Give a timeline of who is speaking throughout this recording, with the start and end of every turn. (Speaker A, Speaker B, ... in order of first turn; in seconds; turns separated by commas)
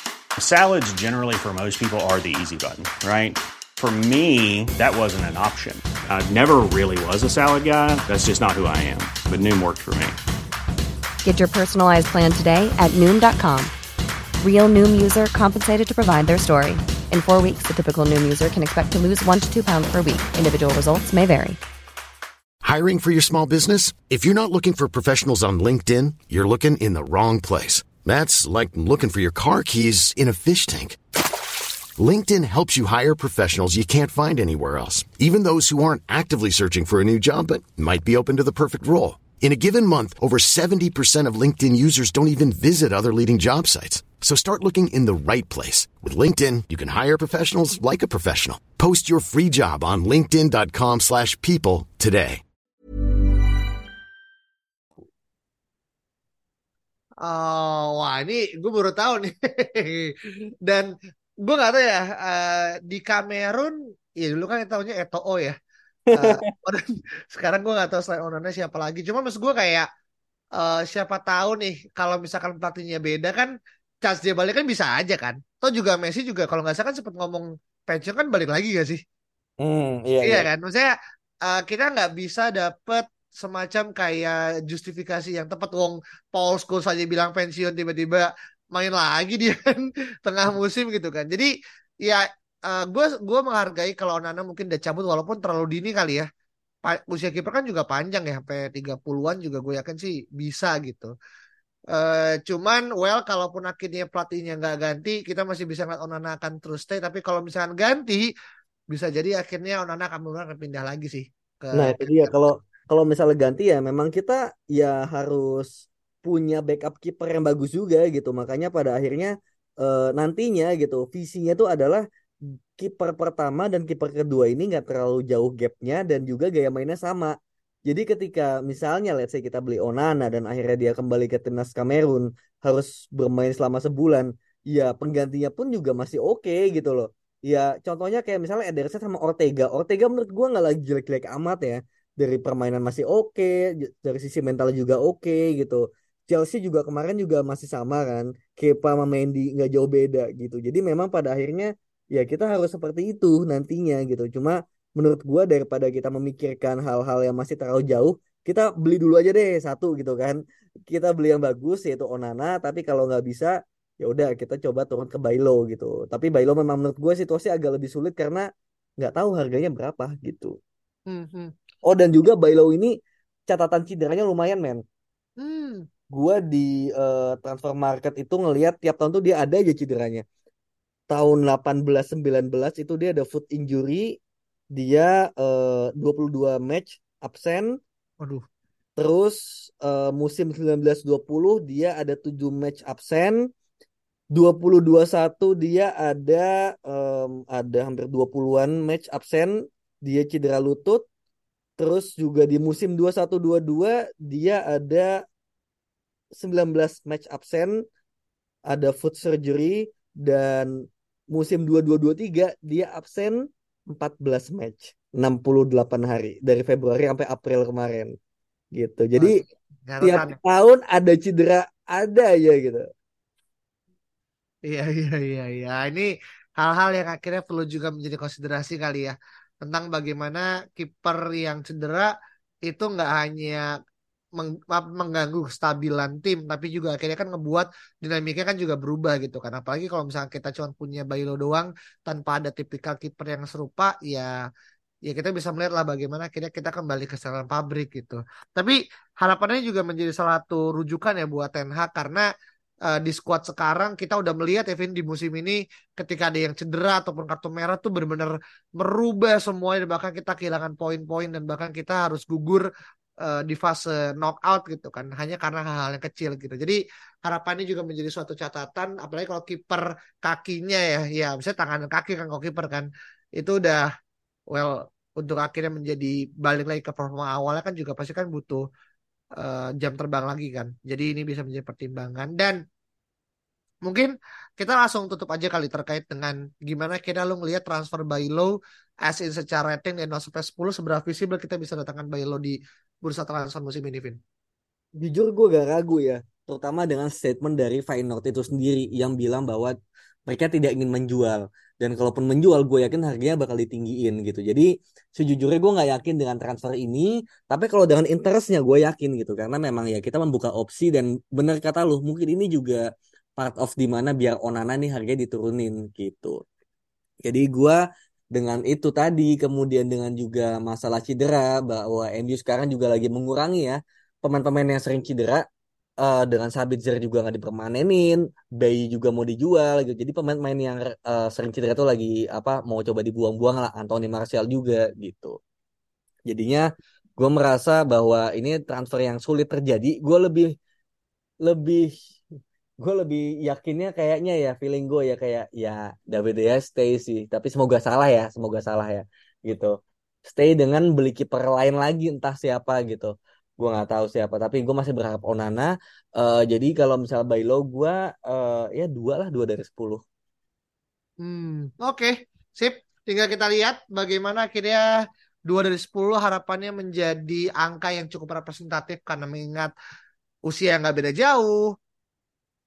Speaker A: 0.4-10.2, Speaker B: 11.2-13.7, Speaker B: 14.4-21.6, Speaker C: 22.6-31.0, Speaker C: 32.0-52.4, Speaker D: 57.2-60.9, Speaker D: 61.4-65.5, Speaker E: 66.1-66.5, Speaker D: 66.2-69.9, Speaker D: 70.6-79.0, Speaker E: 79.6-80.5, Speaker D: 80.2-80.9, Speaker D: 81.4-91.5, Speaker D: 92.0-96.3, Speaker D: 96.8-101.1, Speaker D: 101.9-108.2, Speaker D: 108.9-112.5, Speaker E: 111.7-127.3, Speaker E: 127.8-168.4, Speaker E: 169.0-170.6, Speaker D: 171.1-171.5, Speaker E: 171.8-172.9, Speaker E: 173.5-174.8, Speaker D: 175.4-175.8, Speaker E: 176.1-180.2, Speaker E: 181.1-184.2, Speaker E: 184.7-187.8, Speaker E: 189.0-193.4, Speaker E: 194.3-201.0, Speaker E: 201.8-205.2, Speaker E: 206.4-207.8, Speaker E: 208.7-218.1, Speaker E: 218.8-219.4, Speaker D: 219.2-220.4, Speaker E: 220.0-222.8, Speaker D: 224.7-232.1, Speaker D: 232.7-233.7, Speaker D: 234.4-244.3, Speaker D: 245.1-252.3, Speaker D: 252.9-262.7, Speaker D: 263.2-273.9, Speaker D: 274.5-278.6, Speaker D: 279.4-282.6, Speaker D: 283.8-294.2, Speaker E: 295.0-299.7, Speaker E: 300.3-312.8, Speaker E: 313.4-316.4, Speaker E: 317.2-317.8, Speaker E: 318.3-325.4, Speaker E: 326.0-335.4, Speaker E: 336.3-336.6, Speaker E: 337.2-340.5, Speaker E: 341.4-341.9, Speaker E: 342.8-349.7, Speaker E: 350.2-360.0, Speaker D: 361.2-364.8, Speaker D: 365.5-369.7, Speaker D: 370.5-371.6